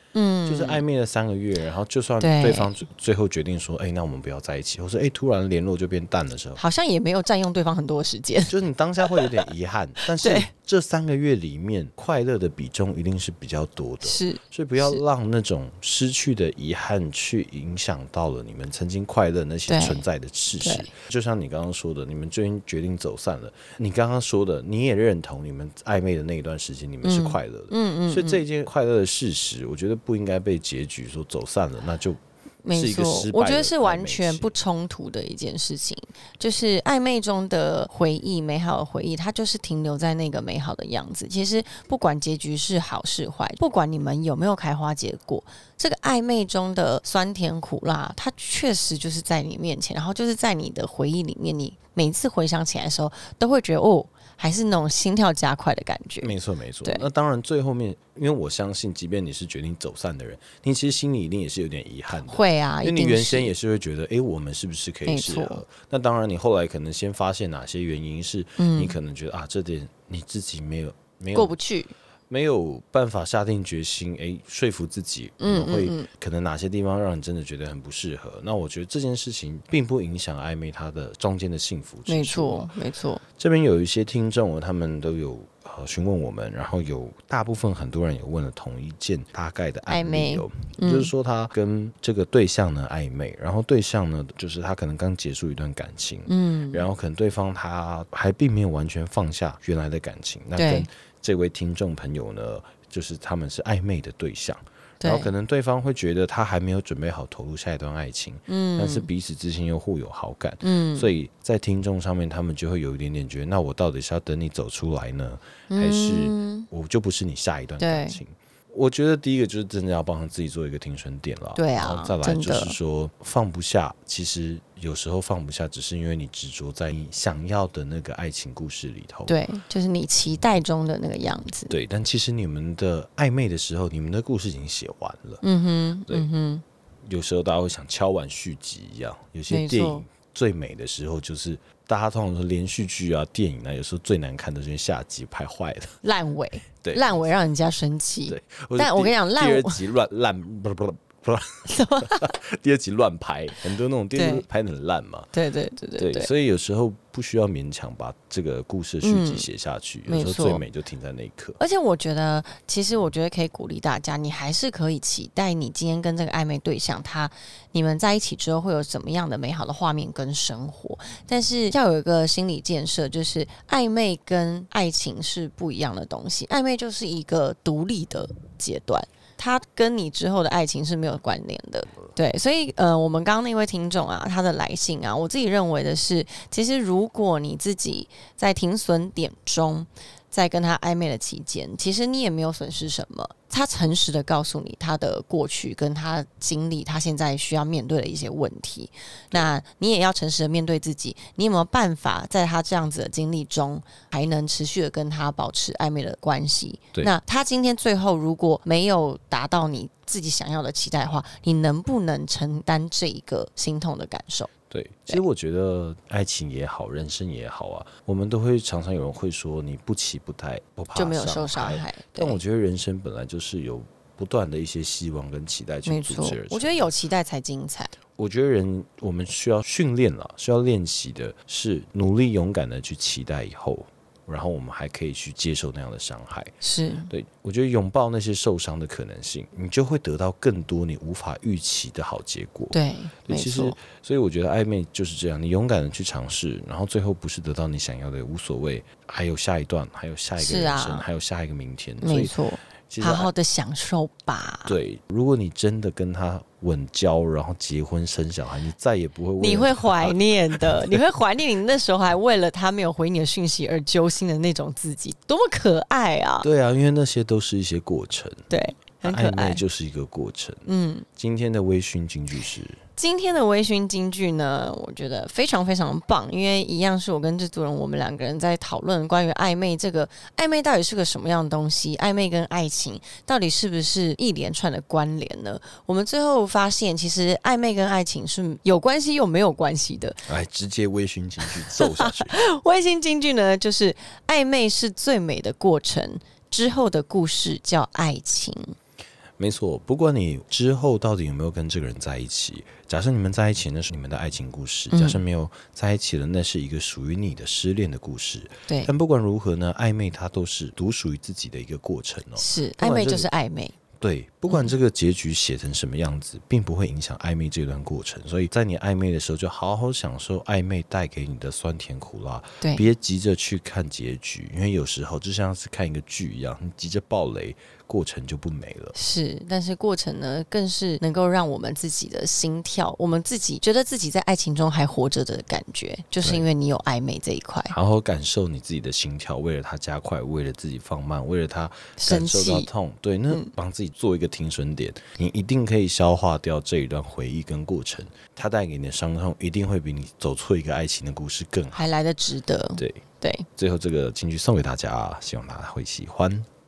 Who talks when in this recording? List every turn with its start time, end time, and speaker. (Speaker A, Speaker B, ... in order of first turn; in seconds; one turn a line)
Speaker A: 0.1-0.8
Speaker B: 0.5-6.6
Speaker A: 2.2-2.7
Speaker A: 6.6-9.3
Speaker B: 8.5-32.2
Speaker A: 10.2-10.5
Speaker A: 14.0-15.0
Speaker A: 19.7-20.0
Speaker A: 20.6-20.9
Speaker A: 27.0-28.4
Speaker A: 32.6-56.3
Speaker B: 32.7-34.5
Speaker B: 56.2-71.5
Speaker A: 62.1-63.5
Speaker A: 65.1-65.6
Speaker A: 68.6-69.0
Speaker A: 71.3-71.9
Speaker B: 72.3-82.7
Speaker A: 75.4-76.1
Speaker A: 82.1-83.2
Speaker B: 83.3-129.3
Speaker A: 89.9-91.1
Speaker A: 96.3-96.8
Speaker A: 100.6-100.9
Speaker A: 105.0-105.3
Speaker A: 108.5-109.1
Speaker A: 110.6-111.1
Speaker A: 115.7-116.7
Speaker A: 117.8-118.2
Speaker A: 121.5-122.8
Speaker A: 129.3-131.7
Speaker B: 131.7-135.4
Speaker A: 135.4-136.6
Speaker B: 137.1-146.0
Speaker A: 139.5-140.0
Speaker A: 146.0-149.8
Speaker B: 148.3-155.3
Speaker A: 151.7-152.3
Speaker A: 154.1-154.4
Speaker A: 155.3-156.3
Speaker B: 156.0-161.6
Speaker A: 159.0-159.4
Speaker A: 160.1-160.6
Speaker A: 161.6-214.5
Speaker B: 214.7-226.9
Speaker A: 220.9-222.4
Speaker A: 225.8-227.9
Speaker B: 228.2-236.5
Speaker A: 236.6-237.1
Speaker B: 237.1-242.8
Speaker A: 242.7-243.8
Speaker B: 243.3-252.3
Speaker A: 250.4-251.0
Speaker A: 252.0-254.7
Speaker B: 252.9-253.3
Speaker B: 254.7-261.0
Speaker A: 259.4-266.4
Speaker B: 266.4-268.5
Speaker A: 268.5-269.6
Speaker B: 269.0-272.8
Speaker A: 270.7-271.1
Speaker A: 273.0-290.2
Speaker B: 290.3-292.4
Speaker A: 291.4-298.7
Speaker B: 299.4-313.3
Speaker A: 304.9-305.2
Speaker A: 312.4-313.8
Speaker B: 314.0-328.9
Speaker A: 322.6-322.9
Speaker A: 328.9-337.7
Speaker B: 337.7-351.8
Speaker A: 342.0-342.7
Speaker A: 351.7-353.5
Speaker B: 352.8-353.0
Speaker B: 353.6-356.5